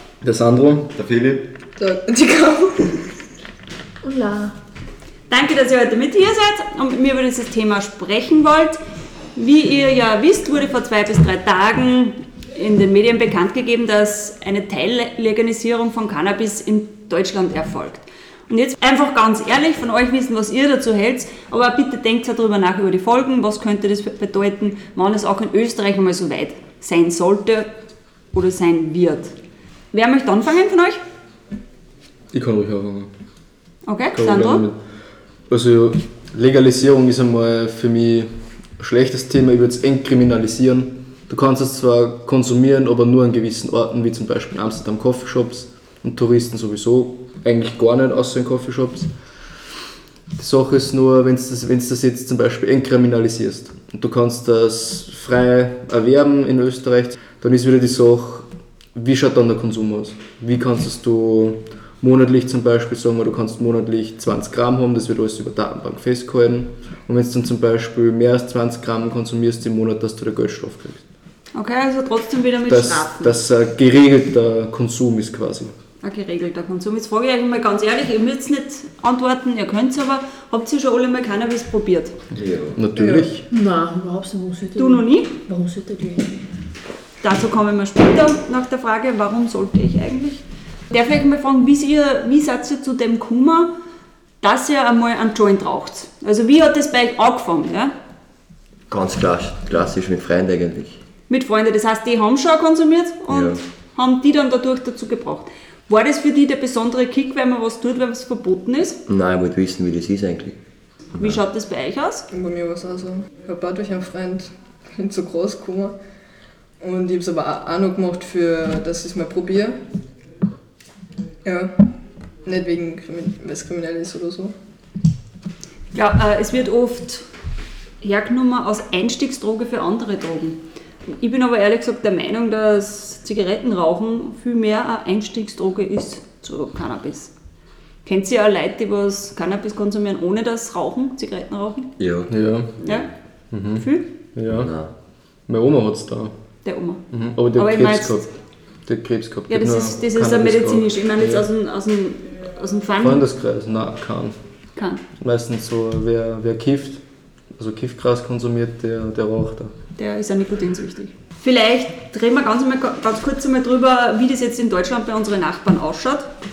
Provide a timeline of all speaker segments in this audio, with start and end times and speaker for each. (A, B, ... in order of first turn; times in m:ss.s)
0:00.2-0:00.9 A
0:00.9-0:01.4 B
0:01.8-0:03.0 C
0:04.0-0:04.5 D
0:05.3-0:08.8 E
0:09.3-0:27.7 E
0:28.3-0:29.4 E
0:29.9-0:31.0 E
0:32.3-0:33.1 A
0:33.8-0:34.6 E
0:34.1-0:34.8 A
0:35.5-0:49.1 A
0:50.4-1:11.0 A
1:11.5-1:13.4 E
1:12.7-1:15.7 A
1:16.0-1:22.2 E
1:22.4-1:22.8 B
1:22.7-1:23.4 A
1:23.0-1:23.3 C
1:23.5-1:26.4 D
1:24.8-1:25.3 E
1:27.2-1:33.7 E
1:34.4-1:37.9 E
1:38.9-1:41.0 B
1:41.3-1:49.0 E
1:43.3-1:43.6 B
1:49.1-1:50.6 B
1:51.1-1:51.4 B
1:51.2-1:52.3 E
1:52.3-1:56.0 C
1:56.8-1:59.8 C
2:01.4-2:01.9 C
2:02.4-2:04.5 C
2:05.9-2:07.2 E
2:08.0-2:17.3 E
2:18.0-2:21.9 E
2:22.0-2:23.1 B
2:22.3-2:22.7 A
2:22.8-2:23.1 E
2:23.5-2:24.7 A
2:23.7-2:24.1 E
2:24.6-2:24.9 B
2:25.5-2:26.3 A
2:26.6-2:27.0 E
2:27.1-2:28.3 A
2:27.5-2:28.3 E
2:28.8-2:31.4 A
2:29.5-2:33.2 E
2:33.0-2:34.4 A
2:34.8-2:35.0 E
2:35.2-2:37.0 A
2:37.6-2:39.7 A
2:40.0-2:46.3 E